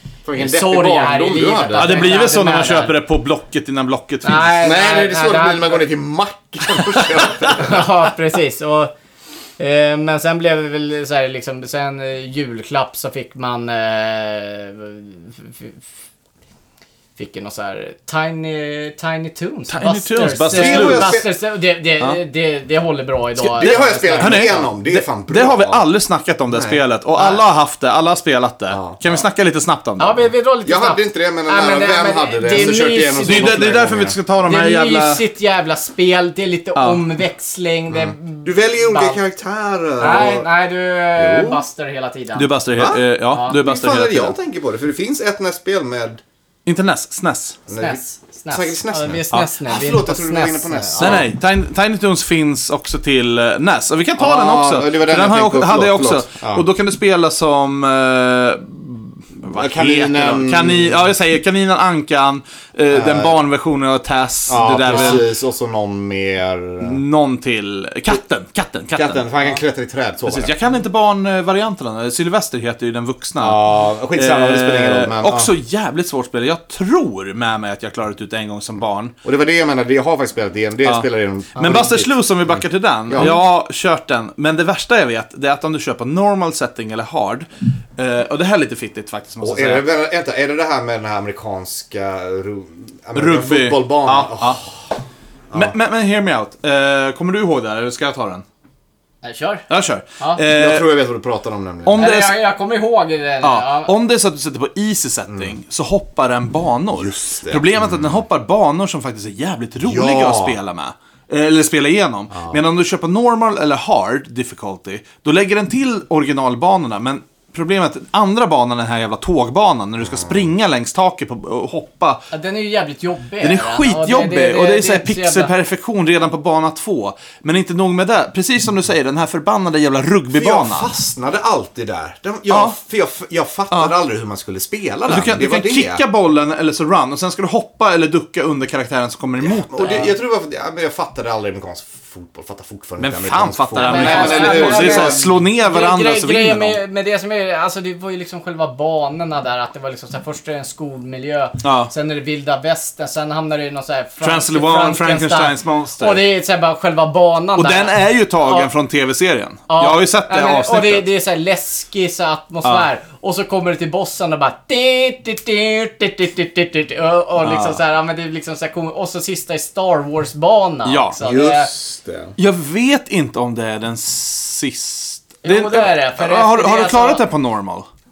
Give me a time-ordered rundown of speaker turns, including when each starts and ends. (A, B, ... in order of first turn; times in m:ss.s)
0:00.2-0:02.2 A
0:00.4-0:02.9 B
0:01.8-0:04.6 C
0:04.2-0:05.8 B
0:04.6-0:07.9 A
0:07.0-0:08.9 B
0:09.6-0:15.8 B
0:17.2-0:24.7 B
0:19.7-0:21.2 C
0:20.5-0:21.3 A
0:23.4-0:30.3 C
0:23.6-0:25.8 A
0:26.5-0:26.8 A
0:28.7-0:29.2 A
0:30.0-0:33.7 B
0:30.7-0:34.2 A
0:33.3-0:35.2 C
0:34.5-0:39.2 B
0:36.8-0:37.0 C
0:37.9-0:40.5 A
0:40.0-0:42.5 B
0:41.2-0:41.6 A
0:42.4-0:44.4 C
0:42.8-0:46.2 A
0:43.3-0:43.6 B
0:46.7-0:47.6 C
0:47.7-0:51.3 A
0:47.8-0:51.2 B
0:51.0-1:05.3 C
0:54.2-0:56.7 A
0:59.5-1:01.0 A
1:02.9-1:03.4 A
1:04.5-1:07.0 A
1:04.9-1:05.2 B
1:06.8-1:09.2 C
1:09.0-1:10.5 A
1:10.3-1:13.6 C
1:13.4-1:15.5 A
1:14.1-1:19.1 C
1:19.2-1:23.4 A
1:20.8-1:29.8 C
1:29.4-1:34.7 A
1:33.2-1:34.6 C
1:35.5-1:38.4 C
1:39.2-1:39.7 B
1:39.7-1:40.9 C
1:40.5-1:42.0 A
1:41.8-1:42.4 C
1:42.0-1:43.9 B
1:43.4-2:02.2 C
1:46.9-1:48.2 A
1:49.8-1:50.6 A
2:00.0-2:00.4 A
2:02.3-2:05.5 B
2:03.4-2:10.9 C
2:10.3-2:16.0 A
2:12.5-2:12.8 C
2:15.1-2:20.1 C
2:19.4-2:25.4 A
2:23.0-2:26.8 C
2:23.8-2:38.7 B
2:31.6-2:31.9 C
2:34.2-2:36.2 C
2:37.6-2:41.1 C
2:39.7-2:51.7 B
2:47.4-2:47.8 C
2:50.9-2:51.2 C
2:51.2-2:52.4 A
2:52.4-2:57.9 C
2:55.4-2:57.2 B